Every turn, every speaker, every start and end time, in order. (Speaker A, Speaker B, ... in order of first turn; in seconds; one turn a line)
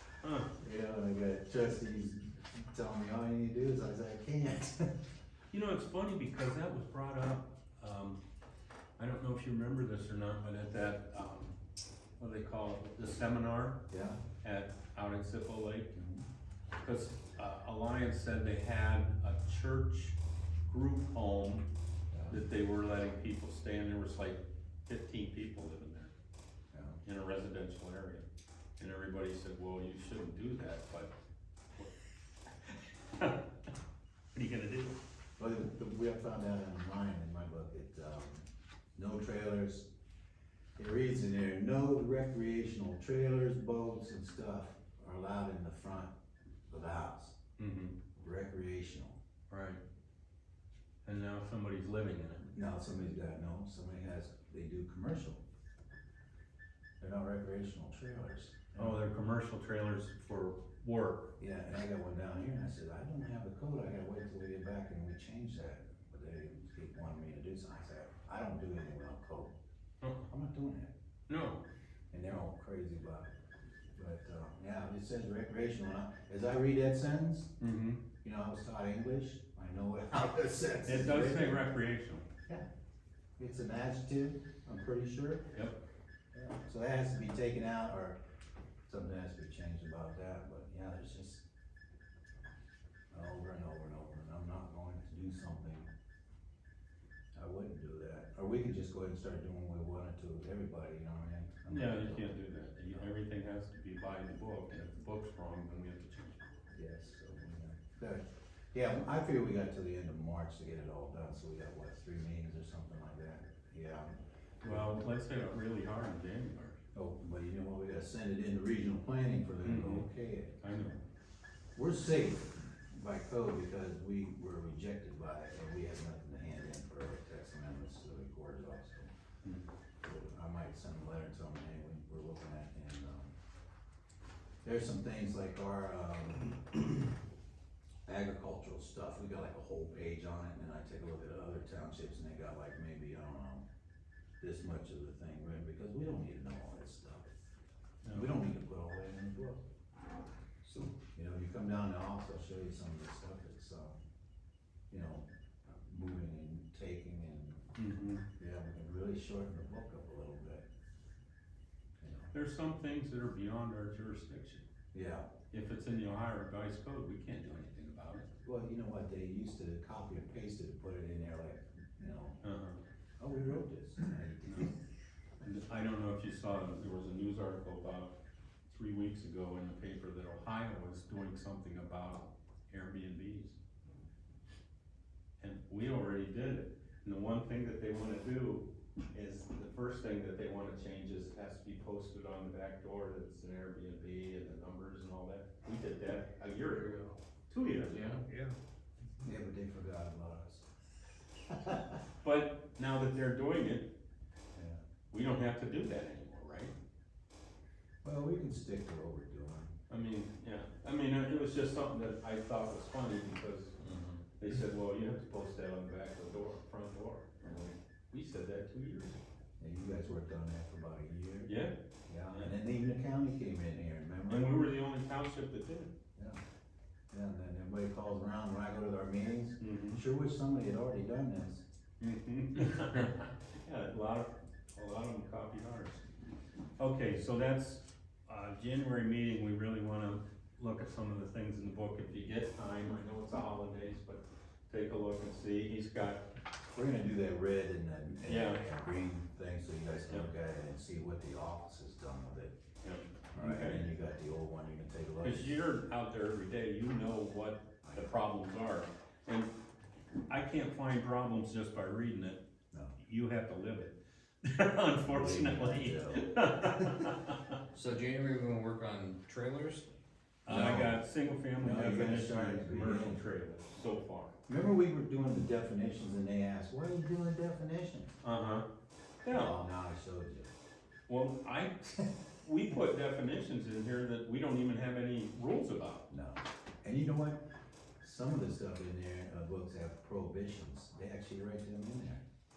Speaker A: 0.2-0.5
Speaker B: 0.6-5.1
Speaker A: 5.5-8.2
Speaker A: 9.0-11.6
Speaker A: 12.2-13.8
Speaker B: 13.9-14.2
Speaker A: 14.4-15.9
Speaker B: 15.9-16.3
Speaker A: 16.8-21.7
Speaker B: 22.1-22.4
Speaker A: 22.3-26.1
Speaker B: 26.7-27.0
Speaker A: 27.1-28.2
Speaker A: 28.8-31.1
Speaker A: 32.6-33.5
Speaker A: 34.3-35.0
Speaker B: 35.4-39.9
Speaker B: 40.8-46.1
Speaker B: 46.7-47.4
Speaker A: 47.6-48.0
Speaker B: 48.2-49.2
Speaker A: 49.5-49.8
Speaker A: 51.1-52.5
Speaker B: 52.5-55.4
Speaker B: 57.0-59.0
Speaker A: 58.8-61.4
Speaker B: 61.4-69.5
Speaker A: 70.0-70.3
Speaker B: 70.2-70.9
Speaker A: 71.3-71.6
Speaker B: 72.1-73.3
Speaker B: 74.0-77.5
Speaker A: 77.6-78.0
Speaker B: 78.2-81.7
Speaker A: 80.9-82.3
Speaker B: 83.4-85.5
Speaker B: 86.3-88.2
Speaker B: 88.9-91.4
Speaker B: 93.1-95.9
Speaker B: 97.3-102.3
Speaker A: 101.7-106.5
Speaker B: 106.7-114.1
Speaker A: 114.6-116.8
Speaker B: 114.6-115.0
Speaker B: 116.9-120.6
Speaker A: 119.6-120.1
Speaker A: 120.6-121.0
Speaker B: 121.8-129.1
Speaker B: 130.0-133.3
Speaker B: 134.6-137.2
Speaker B: 138.1-143.7
Speaker B: 144.4-147.3
Speaker A: 148.0-148.4
Speaker B: 148.1-149.6
Speaker B: 150.6-154.0
Speaker B: 154.9-157.7
Speaker A: 157.8-158.2
Speaker B: 158.4-160.7
Speaker B: 162.0-162.3
Speaker A: 162.3-164.7
Speaker B: 164.9-165.3
Speaker A: 165.5-168.3
Speaker B: 168.4-172.4
Speaker A: 172.4-172.8
Speaker B: 173.2-174.8
Speaker A: 174.5-174.7
Speaker A: 175.4-178.2
Speaker A: 178.7-183.6
Speaker A: 185.4-198.2
Speaker C: 197.9-198.5
Speaker B: 199.2-200.6
Speaker B: 201.5-202.0
Speaker A: 202.2-203.9
Speaker B: 204.6-204.8
Speaker A: 205.1-206.8
Speaker B: 208.0-209.8
Speaker A: 209.9-213.8
Speaker C: 213.8-214.2
Speaker A: 214.4-219.2
Speaker B: 219.6-221.6
Speaker A: 221.5-221.8
Speaker B: 222.1-224.6
Speaker A: 224.3-225.9
Speaker B: 227.1-231.7
Speaker A: 229.6-230.0
Speaker A: 232.0-236.1
Speaker A: 236.8-246.2
Speaker B: 246.7-252.6
Speaker A: 248.2-248.7
Speaker A: 252.8-253.9
Speaker B: 253.3-255.6
Speaker A: 255.2-259.5
Speaker A: 260.3-262.4
Speaker A: 263.0-267.6
Speaker B: 265.0-267.1
Speaker C: 267.7-270.9
Speaker A: 270.5-274.3
Speaker B: 270.5-271.0
Speaker B: 271.6-273.2
Speaker B: 274.5-278.1
Speaker A: 278.2-278.7
Speaker A: 279.2-279.6
Speaker B: 279.3-280.5
Speaker A: 281.1-286.1
Speaker B: 286.1-287.4
Speaker B: 288.0-292.2